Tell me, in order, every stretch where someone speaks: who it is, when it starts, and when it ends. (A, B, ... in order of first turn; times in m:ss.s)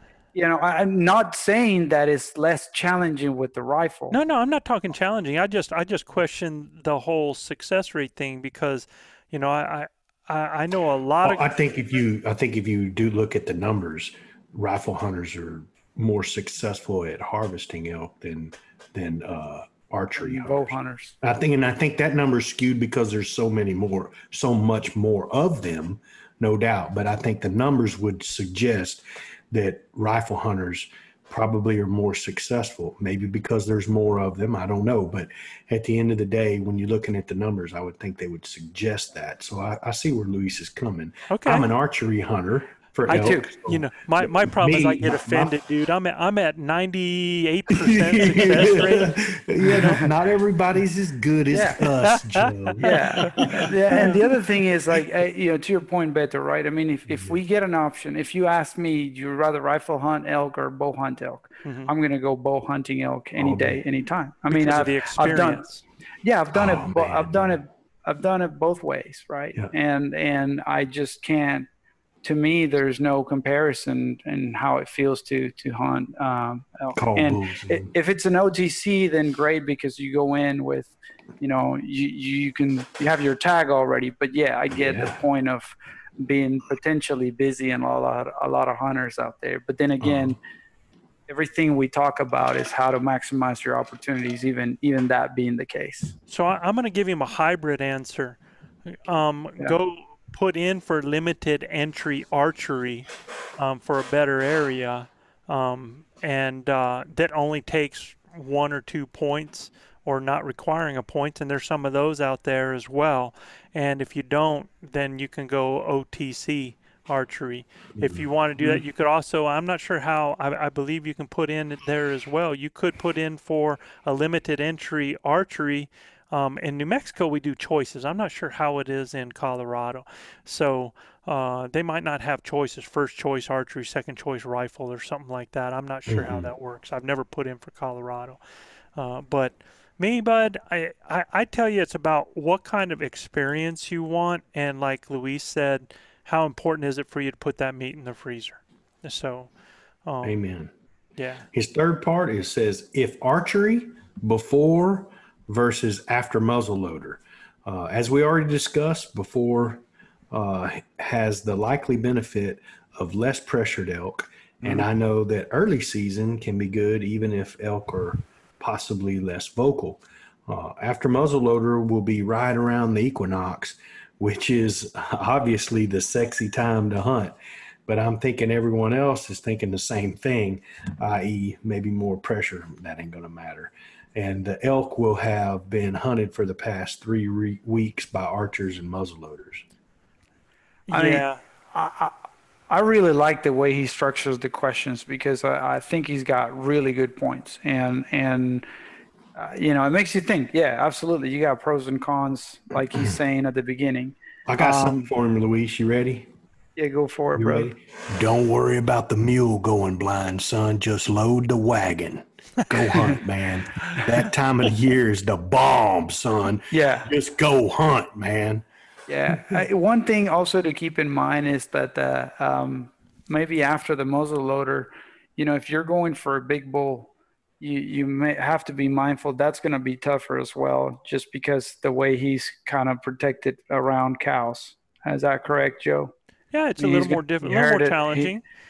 0:00.3-0:04.2 A
0:04.1-0:11.4 B
0:11.2-0:45.6 C
0:20.2-0:21.1 A
0:41.3-0:41.7 B
0:43.1-0:49.2 B
0:47.7-0:54.2 C
0:49.7-0:50.1 A
0:51.5-0:51.8 A
0:52.4-0:53.4 B
0:52.8-1:05.6 A
0:53.9-0:54.2 B
1:01.6-1:01.9 B
1:03.4-1:03.8 C
1:04.5-1:05.8 B
1:06.2-1:11.7 A
1:06.5-1:07.6 C
1:12.2-1:30.4 A
1:16.9-1:17.9 C
1:24.7-1:25.2 C
1:30.0-1:30.4 C
1:31.3-1:36.1 A
1:36.3-1:38.4 B
1:38.9-2:18.4 B
1:58.0-1:58.2 C
2:16.1-2:16.5 C
2:19.0-2:29.5 B
2:30.0-2:30.4 B
2:30.2-2:30.7 C
2:31.2-2:31.4 B
2:31.5-2:57.4 C
2:57.9-3:09.6 C
3:10.9-3:11.4 B
3:10.9-3:12.2 A
3:12.7-3:18.6 A
3:19.3-3:25.1 A
3:24.5-3:26.3 C
3:26.8-3:27.7 A
3:27.3-3:38.6 C
3:36.7-3:37.1 A
3:39.1-3:56.1 A
3:56.5-3:58.4 B
3:56.8-3:58.3 A